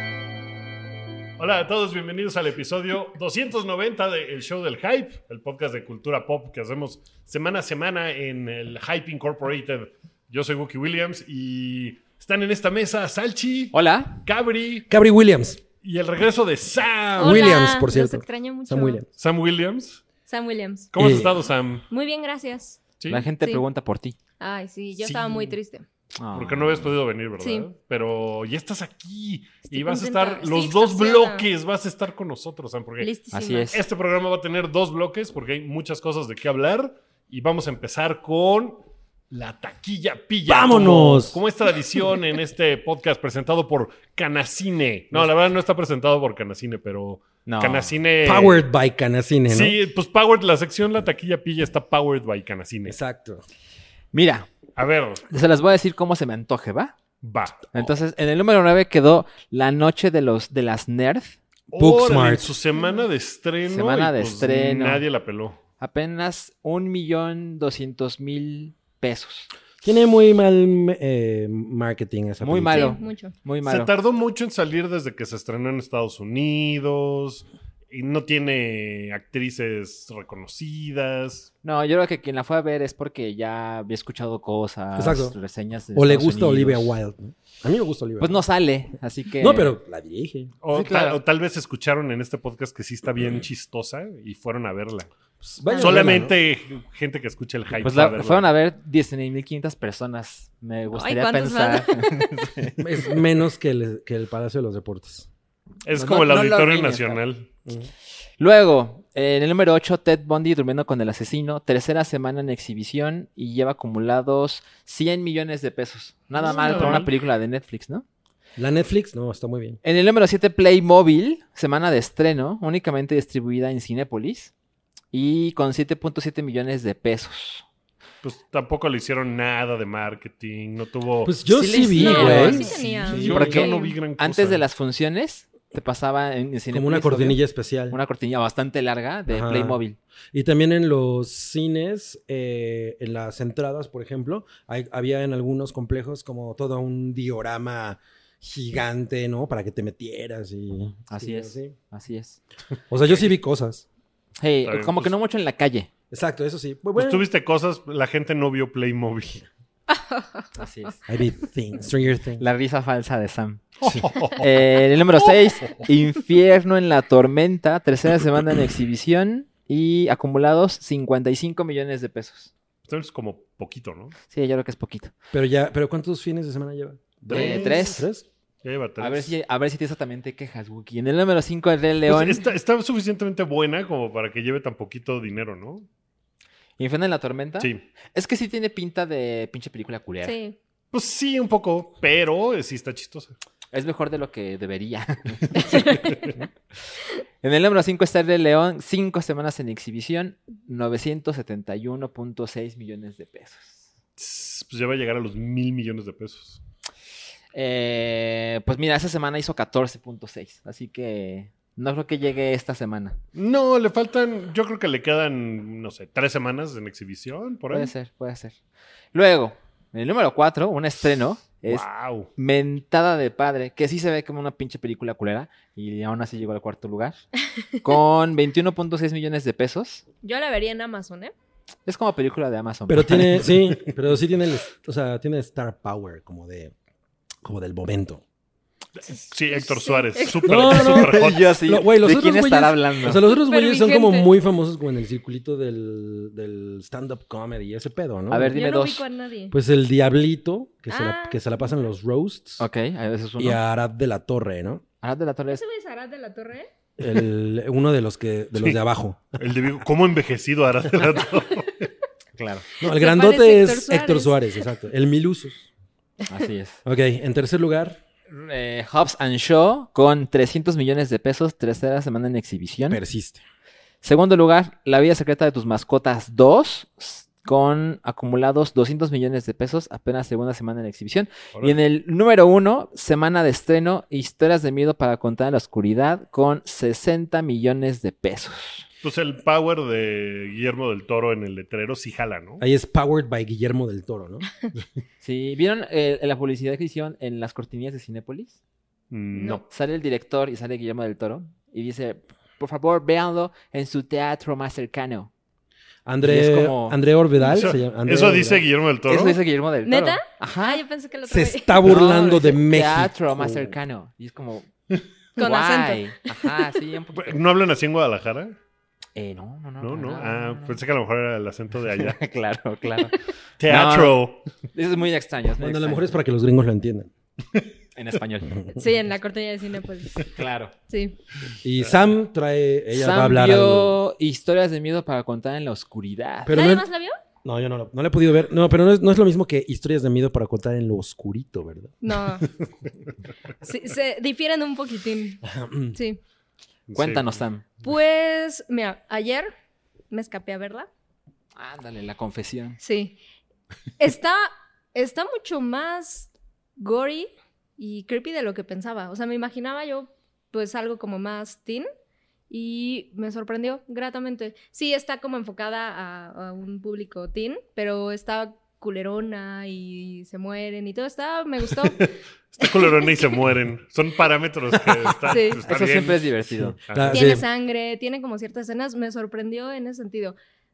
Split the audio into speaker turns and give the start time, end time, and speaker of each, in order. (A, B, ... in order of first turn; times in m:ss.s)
0:01.4-0:14.9 A
0:13.7-0:14.2 B
0:14.9-0:15.6 C
0:15.8-0:17.5 A
0:17.2-0:19.0 D
0:17.2-0:19.1 C
0:19.2-0:20.0 A
0:20.3-0:21.2 D
0:20.9-0:21.9 A
0:21.0-0:21.3 C
0:21.9-0:22.8 D
0:23.0-0:23.3 A
0:23.1-0:24.2 B
0:24.4-0:25.9 D
0:25.0-0:25.6 A
0:26.2-0:26.9 B
0:26.3-0:33.1 A
0:27.4-0:27.7 D
0:29.7-0:31.5 D
0:33.0-0:33.7 D
0:33.3-0:33.8 B
0:33.7-0:48.6 A
0:40.5-0:41.4 C
0:47.5-0:48.0 B
0:48.2-0:49.8 C
0:49.5-0:53.0 A
0:52.9-0:53.4 C
0:54.1-0:54.5 B
0:54.8-0:55.3 A
0:55.3-0:57.0 B
0:57.2-0:57.9 A
0:57.7-1:01.4 B
1:01.7-1:02.6 C
1:01.7-1:05.6 A
1:02.8-1:03.0 D
1:03.7-1:05.0 B
1:05.8-1:09.5 B
1:09.8-1:13.0 C
1:12.4-1:13.9 B
1:12.7-1:13.4 D
1:13.6-1:21.5 A
1:21.6-1:27.0 B
1:25.0-1:25.4 C
1:26.0-1:28.4 C
1:28.2-1:29.8 B
1:29.4-1:30.5 C
1:30.6-1:35.1 A
1:30.7-1:31.2 B
1:35.4-1:36.4 C
1:35.7-1:36.0 D
1:35.7-1:38.5 A
1:37.8-1:42.8 B
1:40.9-1:42.3 D
1:42.8-1:45.3 C
1:45.8-1:47.5 A
1:46.0-1:47.2 B
1:47.7-1:47.9 C
1:48.4-1:58.0 B
1:56.4-1:57.1 A
1:58.6-1:59.8 C
1:59.8-2:04.5 B
2:05.1-2:07.6 B
2:08.2-2:11.4 A
2:11.2-2:13.6 C
2:11.5-2:17.4 B
2:11.9-2:14.0 D
2:12.1-2:14.6 A
2:16.7-2:18.0 C
2:17.9-2:20.0 B
2:19.3-2:19.8 C
2:20.3-2:31.8 C
2:31.1-2:32.4 B
2:32.9-2:33.8 C
2:34.4-2:35.9 B
2:34.6-2:35.2 A
2:36.1-2:37.3 C
2:37.0-2:39.4 A
2:39.9-2:40.6 D
2:40.6-2:41.0 B
2:41.1-2:42.5 C
2:42.4-2:43.7 B
2:43.8-2:45.9 A
2:43.8-2:44.1 C
2:44.3-2:52.5 B
2:52.9-2:54.2 A
2:54.3-2:55.1 B
2:55.3-2:58.3 C
2:57.3-2:58.0 A
2:57.3-2:58.0 B
2:58.6-2:59.4 A
2:59.0-3:02.4 B
3:02.1-3:05.9 A
3:06.8-3:10.4 B
3:10.2-3:10.6 D
3:10.9-3:13.4 A
3:13.7-3:16.3 B
3:15.7-3:16.1 D
3:17.4-3:23.8 B
3:24.2-3:26.6 A
3:27.5-3:33.2 B
3:33.4-3:37.9 A
3:37.7-3:38.6 B
3:39.1-3:41.8 B
3:41.7-3:42.3 A
3:42.4-3:50.0 B
3:50.2-3:51.3 D
3:51.9-3:53.6 B
3:52.9-3:56.7 C
3:57.4-3:58.2 C
3:59.0-4:01.6 A
3:59.6-4:00.6 D
4:00.4-4:08.6 C
4:00.7-4:03.3 B
4:03.2-4:04.3 D
4:08.3-4:09.1 B
4:08.5-4:09.6 D
4:09.5-4:12.7 C
4:10.9-4:11.4 D
4:12.6-4:13.6 B
4:13.4-4:14.8 C
4:15.0-4:15.6 B
4:15.5-4:16.7 D
4:17.0-4:19.4 C
4:19.4-4:21.9 A
4:22.4-4:22.7 B
4:22.8-4:25.7 C
4:22.8-4:24.4 D
4:26.3-4:26.8 B
4:26.8-4:28.0 C
4:28.3-4:33.0 B
4:32.9-4:33.4 C
4:34.0-4:48.9 B
4:49.0-4:52.6 A
4:52.6-4:54.5 C
4:55.2-4:58.6 B
4:59.1-4:59.6 A
4:59.3-4:59.6 D
4:59.7-5:05.3 B
5:06.1-5:09.4 C
5:06.2-5:07.0 B
5:07.5-5:09.4 A
5:09.1-5:10.8 B
5:09.8-5:11.8 D
5:11.3-5:13.8 C
5:11.8-5:14.7 B
5:15.4-5:16.5 D
5:15.4-5:17.4 B
5:17.2-5:18.6 A
5:19.2-5:20.8 B
5:19.8-5:22.2 A
5:22.0-5:24.2 B
5:23.6-5:24.4 A
5:24.8-5:26.2 B
5:25.6-5:27.1 C
5:28.0-5:28.9 B
5:28.8-5:30.3 D
5:30.4-5:30.7 B
5:30.9-5:31.2 D
5:31.6-5:34.0 C
5:32.9-5:36.6 B
5:36.5-5:36.9 C
5:36.5-5:37.2 D
5:37.4-5:42.0 C
5:42.0-5:42.5 D
5:43.6-5:46.2 D
5:45.4-5:46.0 C
5:46.9-5:47.4 A
5:47.0-5:47.6 B
5:47.8-5:49.5 D
5:50.1-5:50.9 D
5:51.6-5:52.8 B
5:52.8-5:53.2 D
5:54.0-6:01.9 D
6:02.5-6:12.1 D
6:12.0-6:16.3 A
6:12.6-6:13.1 D
6:15.3-6:15.6 D
6:15.6-6:16.8 B
6:16.5-6:17.4 C
6:16.9-6:17.2 A
6:17.1-6:20.4 D